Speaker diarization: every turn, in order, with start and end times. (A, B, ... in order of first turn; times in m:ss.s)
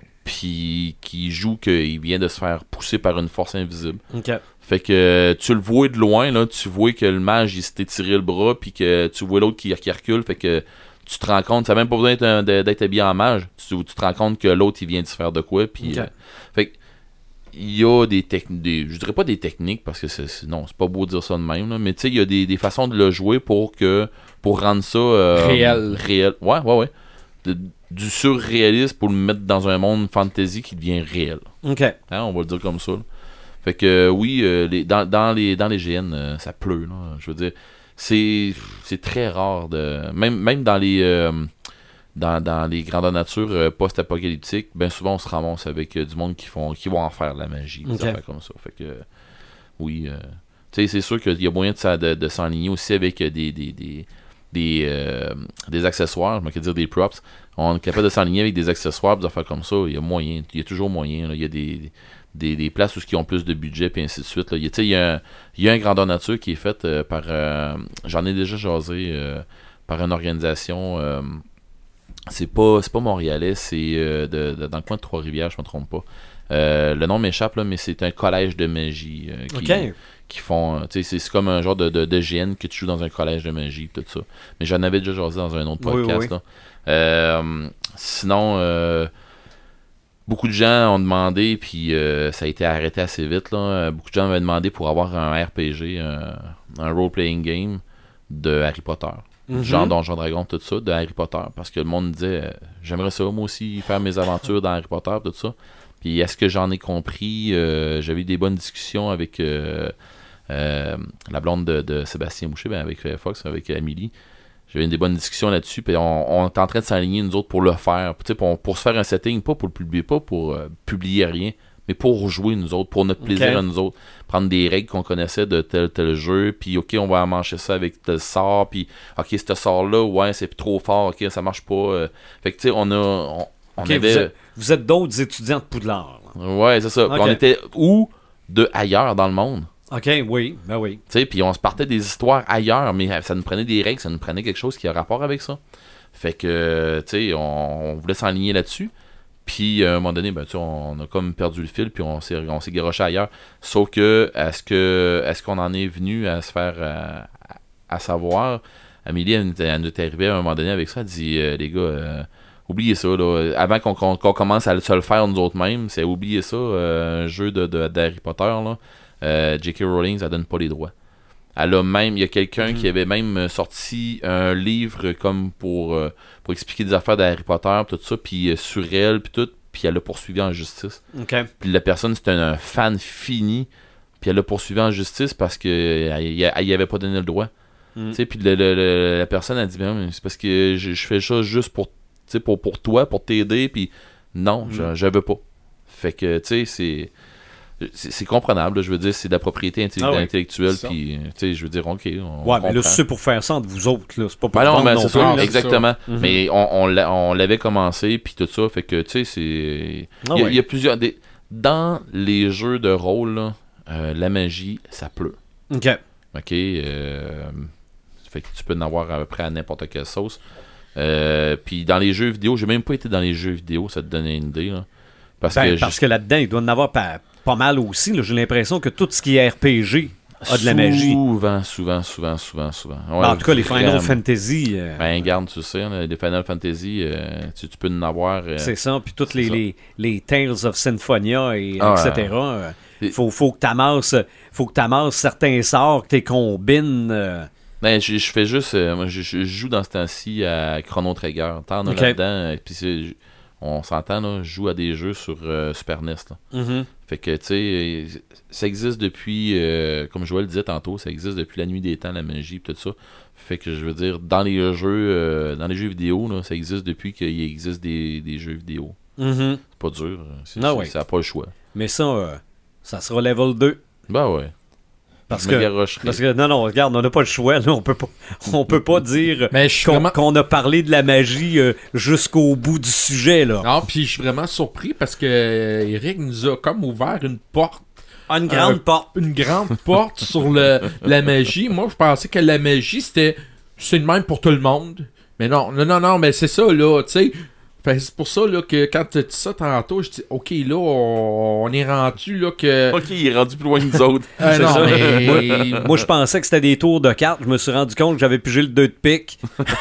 0:00.2-0:04.0 A
0:04.1-0:04.4 B
0:04.6-0:16.7 A
0:15.8-0:16.1 B
0:17.5-0:26.9 A
0:25.3-0:26.0 C
0:27.4-0:31.5 A
0:31.6-0:32.0 B
0:32.1-0:33.0 A
0:33.6-0:41.5 A
0:42.1-0:49.0 A
0:47.8-0:48.2 B
0:49.8-1:11.4 A
1:12.3-1:29.1 A
1:19.5-1:19.9 B
1:25.8-1:26.3 B
1:30.3-1:49.9 A
1:39.5-1:39.9 B
1:50.5-1:54.1 A
1:54.7-2:14.3 A
2:03.2-2:03.6 B
2:13.8-2:16.3 B
2:16.3-2:19.7 A
2:17.1-2:17.4 B
2:19.9-2:21.0 B
2:21.1-2:25.6 A
2:26.1-2:28.9 A
2:29.4-2:37.3 A
2:37.9-2:50.9 A
2:51.6-3:01.0 A
3:01.1-3:01.5 B
3:01.6-3:03.7 A
3:04.2-3:07.5 A
3:08.1-3:17.1 A
3:14.6-3:14.9 B
3:17.8-3:23.0 A
3:20.0-3:20.3 B
3:20.7-3:21.0 C
3:22.4-3:25.5 B
3:24.5-3:35.4 A
3:25.1-3:25.8 C
3:26.1-3:26.4 B
3:30.2-3:30.6 B
3:35.7-3:36.0 B
3:36.3-3:37.7 A
3:38.3-3:40.4 A
3:41.0-3:44.8 A
3:45.4-3:46.0 A
3:45.5-3:51.2 B
3:50.4-3:54.2 A
3:53.2-3:55.0 B
3:55.0-3:58.7 A
3:58.6-4:07.5 B
3:59.3-3:59.6 A
4:01.8-4:02.3 A
4:07.8-4:16.4 A
4:11.8-4:12.2 B
4:16.5-4:16.9 B
4:17.0-4:29.0 A
4:29.2-4:29.6 B
4:29.7-4:31.5 A
4:30.6-4:30.9 B
4:31.7-4:33.8 B
4:34.1-4:34.5 A
4:35.3-4:43.7 B
4:35.3-4:36.2 A
4:39.5-4:40.1 C
4:43.6-4:47.9 C
4:48.3-4:49.1 B
4:48.5-5:03.0 C
5:02.9-5:05.9 A
5:04.4-5:05.9 C
5:04.4-5:09.4 B